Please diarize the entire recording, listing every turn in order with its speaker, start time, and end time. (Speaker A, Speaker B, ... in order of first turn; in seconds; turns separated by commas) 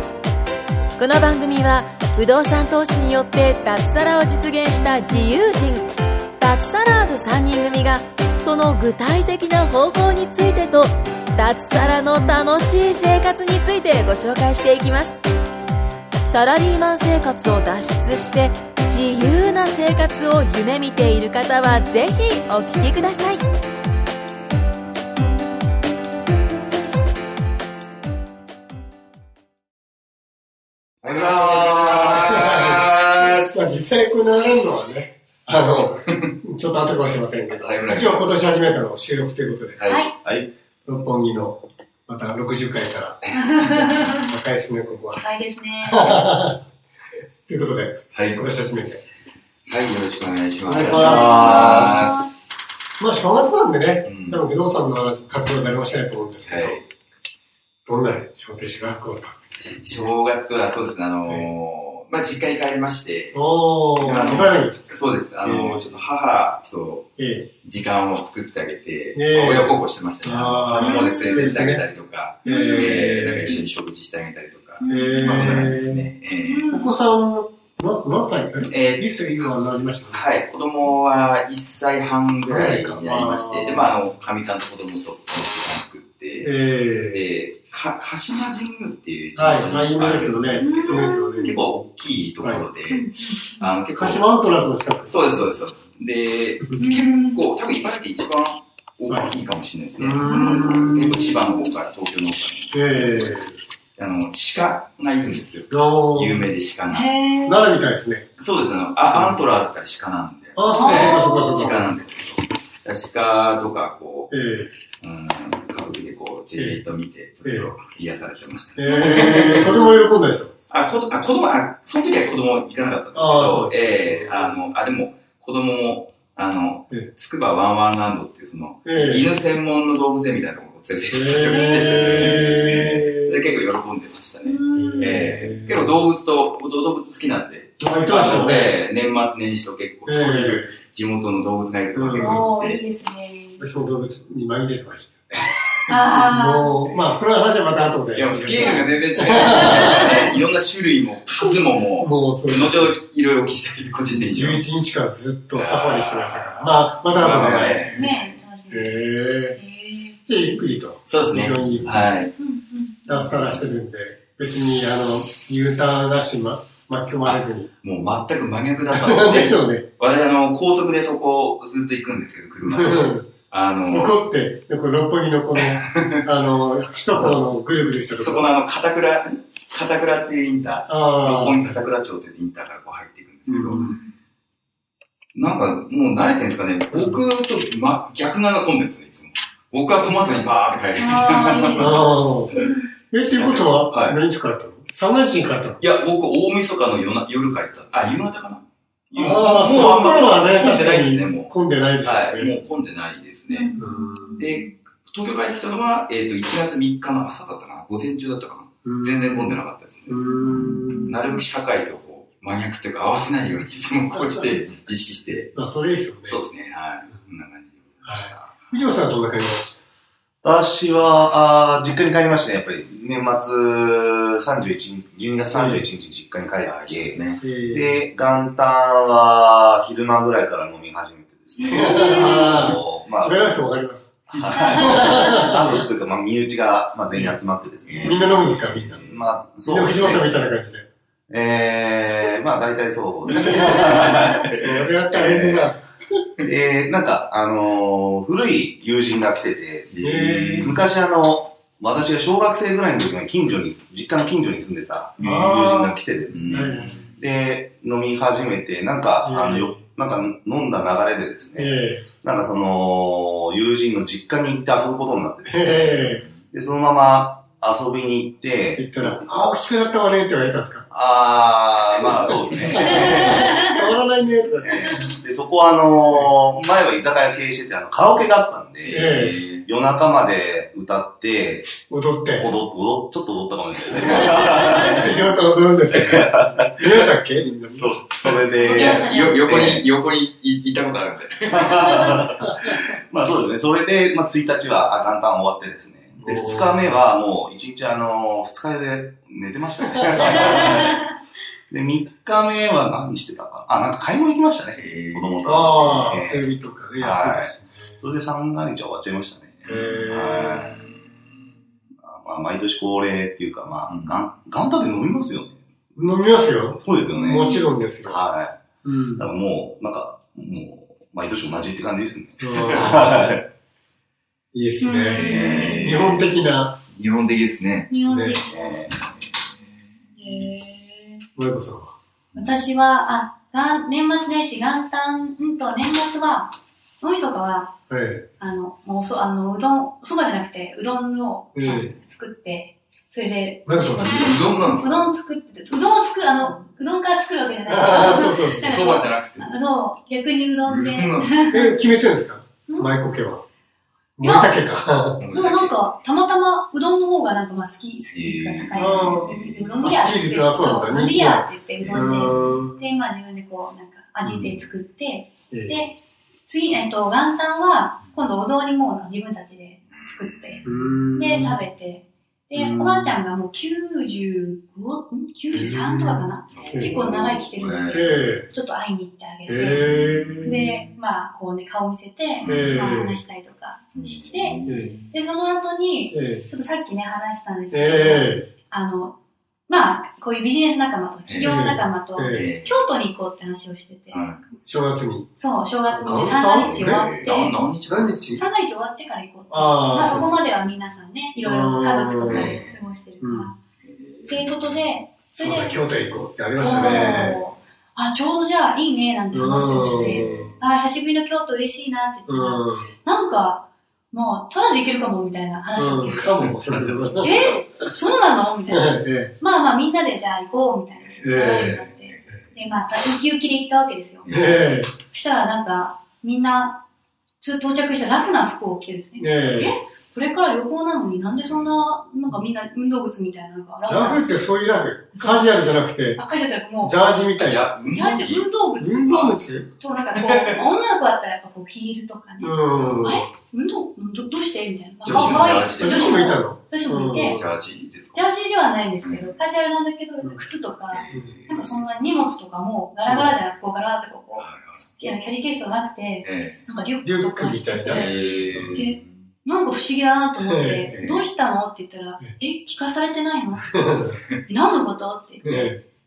Speaker A: 1.0-5.9, Speaker A: 6.4-15.2, Speaker A: 16.3-23.4, Speaker B: 31.0-33.7, Speaker C: 31.1-32.9, Speaker D: 31.1-32.3, Speaker C: 33.5-39.9, Speaker B: 37.5-38.2, Speaker B: 39.8-40.0, Speaker E: 39.8-40.1, Speaker D: 40.2-40.5, Speaker C: 40.9-45.2, Speaker E: 43.3-44.3, Speaker E: 45.1-46.3, Speaker C: 45.8-46.6, Speaker C: 47.5-49.0, Speaker B: 48.1-48.5, Speaker B: 49.7-52.2, Speaker C: 50.6-52.2, Speaker E: 50.7-52.3, Speaker C: 53.0-56.8, Speaker B: 54.0-54.5, Speaker B: 56.4-56.9, Speaker C: 57.9-59.3, Speaker B: 59.8-63.4, Speaker C: 63.3-64.8, Speaker B: 64.0-67.1, Speaker C: 65.4-65.9, Speaker C: 67.2-67.5, Speaker B: 67.6-76.7, Speaker C: 69.1-71.8, Speaker E: 70.7-71.5, Speaker C: 72.4-73.6, Speaker E: 72.4-73.6, Speaker E: 74.8-75.6, Speaker C: 74.8-76.1, Speaker E: 76.4-76.9, Speaker C: 76.7-80.2, Speaker B: 78.6-79.1, Speaker B: 80.1-86.5, Speaker C: 82.4-83.9, Speaker C: 86.4-87.3, Speaker B: 87.1-94.3, Speaker C: 89.3-91.6, Speaker E: 90.6-91.6, Speaker E: 92.9-93.7, Speaker C: 93.9-95.3, Speaker B: 95.0-103.4, Speaker E: 96.8-97.4, Speaker C: 99.1-99.3, Speaker C: 100.0-101.2, Speaker E: 100.2-101.7, Speaker C: 102.7-103.6, Speaker B: 104.0-107.1, Speaker C: 105.7-106.5, Speaker E: 106.9-107.7, Speaker C: 107.5-108.2, Speaker B: 108.4-114.3, Speaker C: 109.1-109.4, Speaker C: 110.5-111.9, Speaker E: 110.6-111.7, Speaker C: 114.3-114.7, Speaker B: 115.0-119.8, Speaker C: 116.5-116.8, Speaker C: 117.4-117.7, Speaker C: 118.8-120.5, Speaker E: 118.8-120.1, Speaker B: 120.7-142.8, Speaker C: 123.1-124.6, Speaker C: 128.8-129.3, Speaker C: 131.1-133.4, Speaker E: 131.5-132.5, Speaker E: 134.4-135.2, Speaker C: 134.7-135.9, Speaker C: 137.8-138.7, Speaker C: 140.1-140.7, Speaker C: 141.9-142.5, Speaker E: 142.2-143.7, Speaker C: 143.6-145.3, Speaker B: 145.5-145.9, Speaker E: 145.9-146.8, Speaker C: 146.1-150.1, Speaker B: 148.1-154.7, Speaker E: 148.5-148.9, Speaker E: 149.4-150.2, Speaker C: 151.9-152.9, Speaker C: 154.1-158.1, Speaker B: 155.5-158.2, Speaker E: 157.9-160.6, Speaker C: 158.7-159.6, Speaker C: 160.3-162.1, Speaker B: 161.1-162.3, Speaker E: 162.3-163.3, Speaker C: 163.1-167.7, Speaker B: 163.2-163.7, Speaker B: 167.2-174.2, Speaker C: 168.9-169.8, Speaker C: 172.6-173.3, Speaker C: 173.8-178.5, Speaker B: 175.5-176.2, Speaker B: 178.1-183.8, Speaker C: 180.9-181.8, Speaker C: 183.5-183.9, Speaker E: 183.7-184.1, Speaker B: 185.3-192.6, Speaker C: 186.9-187.2, Speaker E: 190.9-192.9, Speaker C: 191.7-195.8, Speaker B: 193.3-194.2, Speaker B: 195.8-203.7, Speaker C: 199.2-202.5, Speaker E: 203.5-204.7, Speaker C: 203.8-204.5, Speaker B: 204.4-215.5, Speaker C: 208.8-211.2, Speaker E: 210.3-211.1, Speaker C: 214.1-214.6, Speaker C: 215.5-216.4, Speaker B: 216.3-218.7, Speaker C: 218.0-219.7, Speaker D: 220.4-233.4, Speaker C: 225.5-225.9, Speaker B: 226.6-227.4, Speaker C: 227.4-228.0, Speaker E: 231.6-232.7, Speaker C: 231.7-234.1, Speaker D: 234.3-240.4, Speaker E: 234.6-235.2, Speaker C: 234.7-235.8, Speaker B: 237.8-239.2, Speaker C: 238.0-239.0, Speaker C: 239.6-240.9, Speaker D: 241.3-245.7, Speaker C: 243.3-245.8, Speaker D: 246.4-269.4, Speaker B: 249.9-250.8, Speaker C: 250.0-250.7, Speaker C: 255.2-257.0, Speaker B: 256.3-257.1, Speaker C: 259.2-259.8, Speaker C: 261.6-262.1, Speaker C: 265.4-266.2, Speaker C: 268.8-270.9, Speaker D: 270.9-273.5, Speaker C: 272.1-275.0, Speaker B: 272.5-273.0, Speaker E: 272.9-273.8, Speaker D: 274.6-281.8, Speaker B: 278.8-279.6, Speaker C: 278.9-279.4, Speaker C: 281.8-282.5, Speaker D: 282.4-285.2, Speaker C: 283.9-288.0, Speaker E: 284.4-285.1, Speaker D: 285.9-287.1, Speaker D: 287.7-289.8, Speaker B: 288.2-292.2, Speaker E: 288.6-289.8, Speaker D: 291.5-301.1, Speaker C: 296.2-296.9, Speaker D: 301.7-306.5, Speaker B: 304.7-306.1, Speaker C: 305.4-308.0, Speaker D: 307.0-310.5, Speaker C: 309.6-310.9, Speaker B: 309.6-311.0, Speaker D: 312.0-315.6, Speaker B: 313.9-314.2, Speaker C: 315.9-318.2, Speaker D: 316.8-318.6, Speaker E: 317.1-317.7, Speaker C: 318.8-319.2, Speaker D: 319.2-323.5, Speaker C: 322.4-323.2, Speaker B: 322.5-323.0, Speaker C: 324.5-326.8, Speaker E: 324.8-326.0, Speaker B: 325.1-326.3, Speaker D: 325.2-326.2, Speaker B: 326.9-327.9, Speaker E: 327.9-328.9, Speaker C: 328.1-328.4, Speaker D: 328.5-328.9, Speaker E: 330.1-331.2, Speaker C: 331.4-331.9, Speaker B: 332.3-332.6, Speaker E: 332.3-337.7, Speaker C: 337.9-338.2, Speaker E: 338.4-351.7, Speaker C: 341.5-341.9, Speaker C: 343.6-344.4, Speaker B: 344.1-345.1, Speaker C: 347.6-348.8, Speaker B: 348.6-349.5, Speaker B: 350.6-351.5, Speaker C: 351.5-353.4, Speaker E: 352.7-352.9, Speaker C: 354.2-355.2, Speaker E: 354.2-354.6, Speaker B: 355.2-355.7, Speaker E: 355.3-370.6, Speaker B: 358.0-359.9, Speaker C: 358.7-362.8, Speaker B: 361.8-362.2, Speaker C: 364.2-364.5, Speaker B: 364.3-364.6, Speaker C: 365.5-365.9, Speaker B: 369.9-370.9, Speaker C: 370.6-371.6, Speaker E: 371.1-389.1, Speaker C: 372.5-373.2, Speaker C: 375.5-378.5, Speaker B: 376.5-378.2, Speaker C: 379.5-380.6, Speaker B: 379.6-380.9, Speaker B: 382.4-382.9, Speaker C: 382.4-383.2, Speaker B: 383.9-385.1, Speaker C: 384.6-384.9, Speaker C: 386.1-386.5, Speaker C: 387.7-388.5, Speaker E: 389.7-394.2, Speaker B: 391.2-391.6, Speaker C: 391.4-392.5, Speaker B: 392.3-392.8, Speaker B: 394.1-394.4, Speaker C: 394.6-395.3, Speaker E: 395.4-397.6, Speaker C: 395.9-397.1, Speaker B: 395.9-398.1, Speaker C: 397.9-398.4, Speaker E: 398.3-403.6, Speaker C: 399.5-400.4, Speaker C: 401.4-402.6, Speaker B: 402.2-402.8, Speaker C: 403.2-403.5, Speaker B: 403.8-404.9, Speaker E: 404.3-405.8, Speaker C: 405.4-407.4, Speaker B: 406.5-407.1, Speaker E: 406.6-416.5, Speaker C: 409.3-410.5, Speaker B: 410.0-410.5, Speaker C: 412.3-412.9, Speaker C: 415.8-417.5, Speaker B: 416.4-417.6, Speaker E: 417.2-424.3, Speaker C: 418.7-419.3, Speaker B: 421.2-422.5, Speaker C: 421.2-421.8, Speaker B: 424.2-424.6, Speaker C: 424.3-424.9, Speaker E: 425.1-426.8, Speaker E: 427.4-434.2, Speaker C: 429.2-429.7, Speaker B: 431.4-431.8, Speaker C: 433.9-436.2, Speaker E: 435.1-435.6, Speaker E: 436.1-437.0, Speaker C: 436.8-437.7, Speaker B: 437.4-438.5, Speaker E: 437.9-447.4, Speaker C: 438.8-439.7, Speaker B: 439.0-439.6, Speaker B: 440.1-440.6, Speaker C: 442.4-443.2, Speaker B: 445.0-446.3, Speaker C: 445.1-447.4, Speaker B: 447.1-448.3, Speaker E: 448.1-463.8, Speaker B: 449.0-449.4, Speaker B: 450.9-451.8, Speaker C: 451.1-451.3, Speaker C: 453.1-453.4, Speaker B: 454.4-454.9, Speaker B: 456.2-456.6, Speaker C: 457.0-458.8, Speaker B: 457.9-459.1, Speaker C: 460.4-461.1, Speaker B: 460.9-461.3, Speaker C: 463.7-464.2, Speaker E: 464.5-465.7, Speaker C: 465.4-465.8